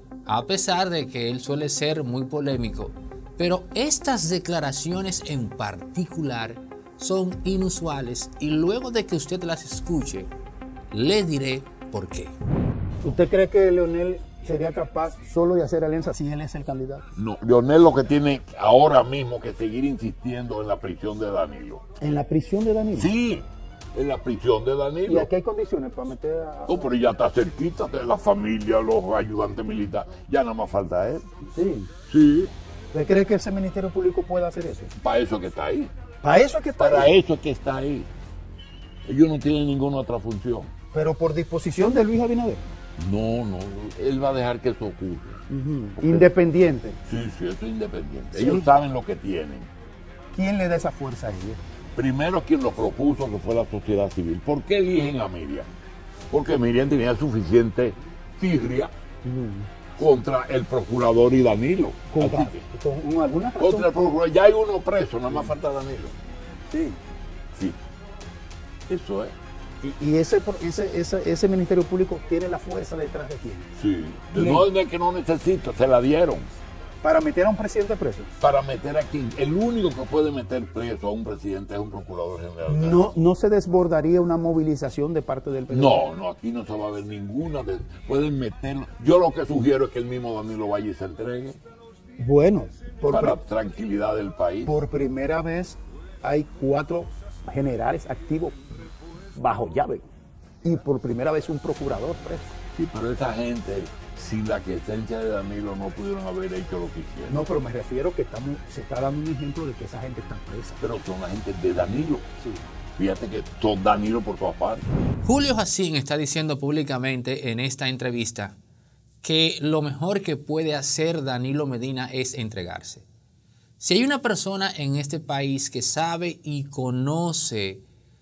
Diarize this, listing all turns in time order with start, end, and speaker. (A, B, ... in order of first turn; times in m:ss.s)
0:00.2-0:10.3 A
0:10.9-0:12.3 A
0:13.0-0:17.0 B
0:17.2-0:21.8 C
0:22.0-0:23.1 B
0:22.9-0:25.3 C
0:25.0-0:26.8 B
0:26.7-0:31.3 C
0:31.5-0:31.9 B
0:32.1-0:32.5 C
0:32.9-0:34.9 B
0:35.0-0:35.9 C
0:36.2-0:37.1 B
0:36.8-0:38.1 C
0:39.1-0:40.7 C
0:40.9-0:42.7 B
0:43.0-0:45.4 C
0:45.5-0:47.0 B
0:46.0-0:46.3 C
0:47.1-0:49.7 C
0:48.3-0:48.7 B
0:50.3-0:51.6 B
0:52.0-0:55.7 C
0:56.3-0:58.9 C
0:59.2-0:59.7 B
1:00.0-1:02.6 C
1:02.1-1:04.0 B
1:03.6-1:06.1 C
1:06.7-1:07.0 B
1:08.9-1:09.3 C
1:09.8-1:13.6 B
1:13.8-1:16.5 C
1:14.3-1:14.6 B
1:17.0-1:18.3 B
1:18.4-1:23.1 C
1:22.7-1:26.0 B
1:25.7-1:31.6 C
1:32.2-1:33.4 B
1:33.1-1:34.8 C
1:34.6-1:38.6 B
1:39.4-1:40.0 B
1:40.6-1:42.5 B
1:42.8-1:47.4 C
1:47.3-1:50.8 B
1:50.8-1:52.3 C
1:53.0-1:54.8 C
1:55.2-1:58.5 A
1:59.2-2:03.0 A
2:03.8-2:07.8 A